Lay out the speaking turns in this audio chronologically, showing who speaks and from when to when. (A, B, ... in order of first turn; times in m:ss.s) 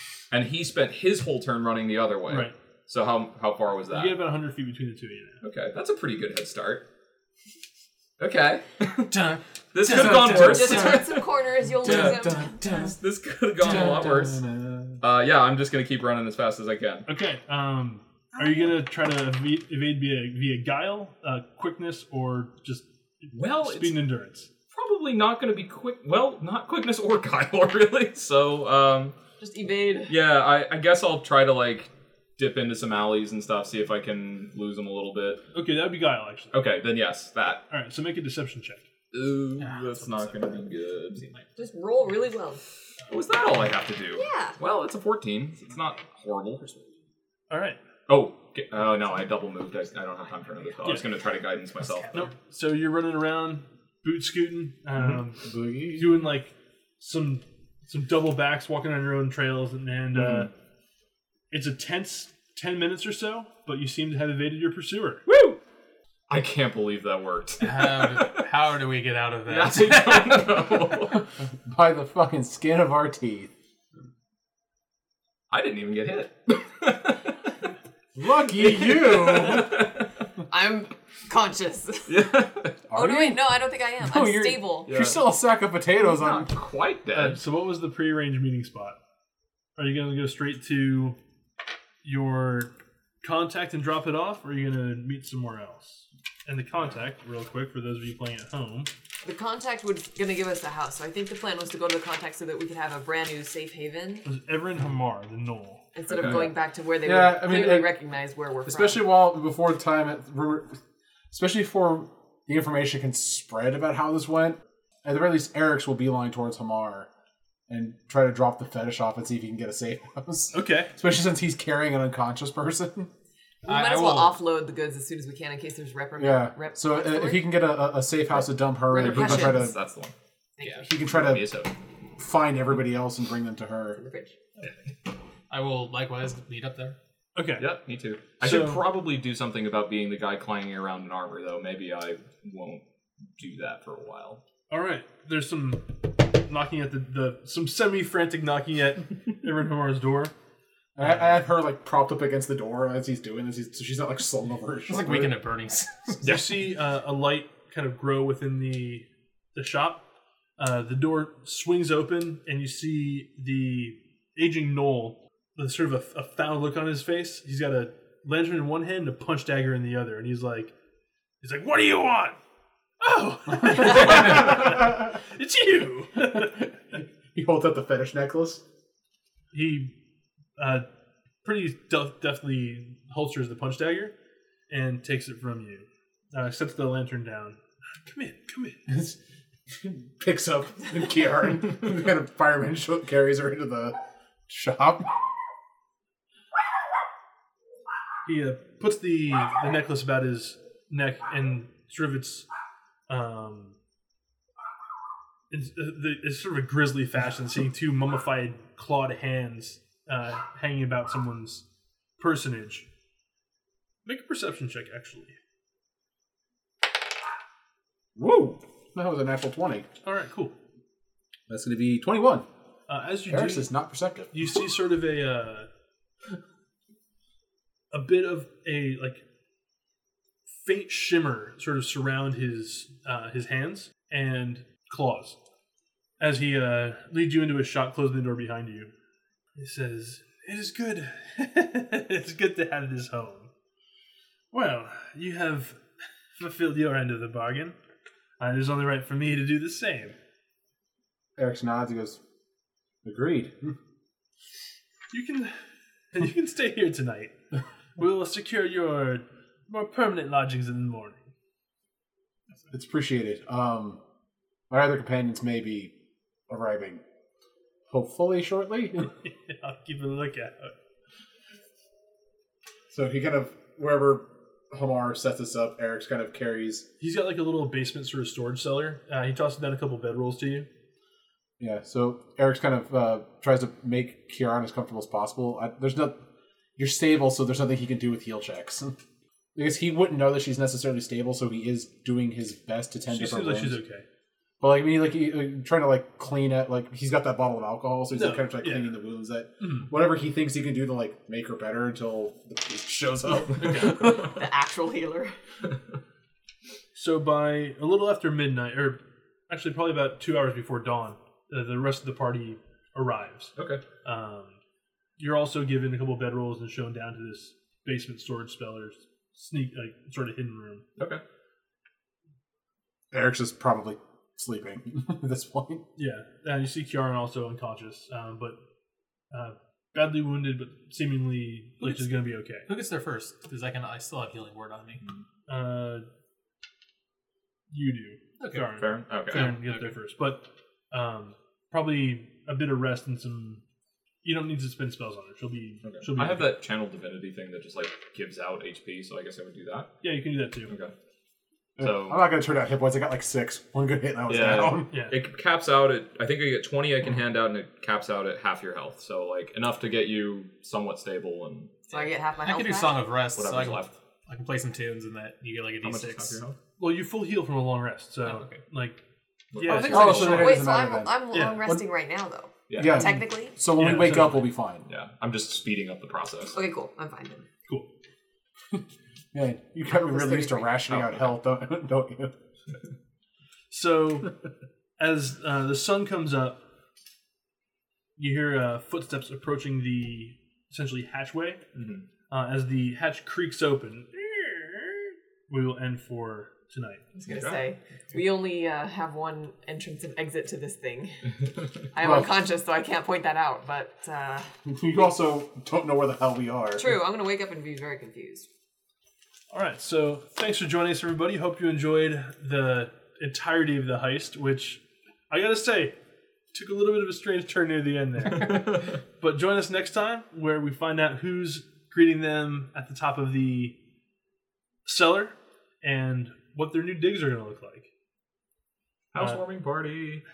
0:00.3-0:04.2 A
0:02.3-0:02.5 B
0:03.9-0:05.4 B
0:05.4-0:06.8 A
0:08.2-0:09.1 A
0:09.1-0:10.6 C
0:09.7-0:11.3 A
0:09.9-0:13.0 D
0:10.3-0:12.9 E
0:11.8-0:14.4 A
0:13.6-0:15.0 D
0:15.0-0:17.1 A
0:17.1-0:24.5 B
0:23.3-0:24.0 A
0:24.7-0:29.1 A
0:29.4-0:30.1 E
0:30.1-0:35.4 A
0:35.5-0:36.6 B
0:36.5-0:37.6 A
0:37.7-0:38.9 B
0:39.1-0:41.2 A
0:39.6-0:40.6 C
0:41.1-0:41.5 C
0:41.6-0:42.6 E
0:43.1-0:46.9 A
0:44.2-0:44.5 E
0:47.5-0:47.8 B
0:48.1-0:52.2 A
0:51.8-0:52.3 C
0:52.1-1:00.5 B
0:55.4-0:56.2 D
1:01.5-1:05.2 B
1:05.2-1:05.6 A
1:06.3-1:08.5 A
1:07.6-1:10.7 C
1:09.4-1:11.3 A
1:11.4-1:13.5 D
1:15.5-1:17.3 A
1:18.1-1:19.8 D
1:18.6-1:20.0 A
1:19.4-1:19.7 E
1:20.5-1:22.1 E
1:22.1-1:22.8 A
1:22.9-1:26.5 D
1:22.9-1:25.0 E
1:24.8-1:25.2 A
1:26.0-1:27.4 A
1:27.1-1:29.0 B
1:29.8-1:31.2 B
1:32.0-1:32.7 B
1:33.2-1:38.9 B
1:39.2-1:44.2 E
1:44.2-1:45.8 B
1:45.9-1:49.0 E
1:46.1-1:46.4 A
1:46.2-1:47.9 D
1:48.6-1:50.8 D
1:51.3-1:57.1 D
1:57.7-2:03.1 D
2:00.5-2:00.9 B
2:03.6-2:04.3 B
2:03.6-2:07.5 E
2:06.2-2:09.8 D
2:08.8-2:09.8 E
2:08.9-2:10.1 A
2:10.6-2:10.9 E
2:10.8-2:11.6 D
2:11.1-2:11.7 A
2:12.2-2:14.0 D
2:14.0-2:14.3 E
2:15.5-2:17.0 C
2:17.4-2:17.7 B
2:17.6-2:22.8 A
2:18.4-2:18.8 B
2:23.4-2:24.4 A
2:24.7-2:30.3 B
2:31.0-2:35.4 D
2:34.9-2:36.4 C
2:36.2-2:40.0 B
2:40.6-2:50.7 B
2:51.4-2:52.4 B
2:53.0-2:56.7 B
2:53.9-2:54.8 D
2:56.2-2:58.6 D
2:59.5-2:59.9 B
3:00.6-3:00.9 B
3:01.4-3:04.1 B
3:04.7-3:08.8 B
3:08.9-3:09.2 D
3:09.7-3:13.9 D
3:14.5-3:15.2 D
3:18.2-3:22.5 B
3:23.1-3:23.8 B
3:25.5-3:31.6 B
3:32.2-3:32.9 B
3:34.0-3:35.4 B
3:38.1-3:39.9 D
3:40.0-3:40.5 B
3:41.5-3:42.5 D
3:42.9-3:43.7 B
3:43.3-3:44.3 D
3:44.3-3:45.7 B
3:47.9-3:49.2 B
3:50.6-3:55.4 B
3:56.2-3:58.9 B
3:59.6-4:03.5 B
4:04.5-4:05.8 B
4:06.4-4:07.8 B
4:08.4-4:10.2 B
4:11.4-4:12.2 D
4:13.0-4:13.8 D
4:15.1-4:15.5 B
4:16.1-4:17.4 B
4:18.0-4:21.3 B
4:22.7-4:24.0 D
4:24.7-4:25.9 D
4:26.5-4:27.0 D
4:27.9-4:29.1 D
4:29.2-4:30.7 B
4:32.9-4:36.9 D
4:37.0-4:40.7 B
4:41.6-4:46.2 D
4:46.8-4:49.0 D
4:49.5-4:53.8 D
4:53.1-4:54.0 B
4:54.6-5:04.3 D
4:58.1-4:58.9 B
4:59.6-4:59.9 B
5:03.6-5:04.1 B
5:03.7-5:05.3 E
5:06.9-5:13.5 B
5:13.6-5:13.8 A
5:14.0-5:14.6 B
5:15.2-5:20.8 B
5:23.1-5:25.8 D
5:26.0-5:28.6 B
5:29.3-5:32.7 B
5:31.8-5:32.1 C
5:32.6-5:35.0 C
5:35.5-5:36.1 B
5:37.7-5:43.6 B
5:38.4-5:38.8 C
5:38.8-5:39.6 A
5:39.3-5:39.9 C
5:44.2-5:46.5 B
5:45.8-5:50.0 A
5:50.0-5:50.7 B
5:51.8-5:54.9 D
5:51.8-5:52.3 A
5:54.3-6:01.9 A
5:54.9-5:55.2 B
6:01.9-6:03.0 E
6:02.4-6:06.4 C
6:03.4-6:03.9 A
6:05.8-6:06.6 A
6:06.8-6:09.0 B
6:08.2-6:08.6 C
6:09.5-6:10.5 A
6:09.5-6:10.6 B
6:09.6-6:10.5 C
6:09.8-6:11.8 D
6:10.2-6:13.6 E
6:11.3-6:11.6 B
6:12.7-6:13.0 A
6:12.8-6:14.9 D
6:12.9-6:13.2 B
6:13.8-6:14.4 B
6:14.9-6:16.6 A
6:16.5-6:17.4 E
6:19.3-6:22.3 D
6:19.9-6:20.8 E
6:23.7-6:24.3 B
6:25.0-6:26.6 B
6:28.2-6:31.6 B
6:31.7-6:32.0 A
6:32.3-6:37.0 B
6:37.1-6:41.2 E
6:37.3-6:37.6 A
6:41.9-6:44.5 E
6:42.0-6:42.4 D
6:44.6-6:47.0 D
6:46.8-6:48.5 E
6:49.5-6:55.9 B
6:56.5-7:03.8 B
7:04.8-7:07.9 B
7:09.1-7:10.2 A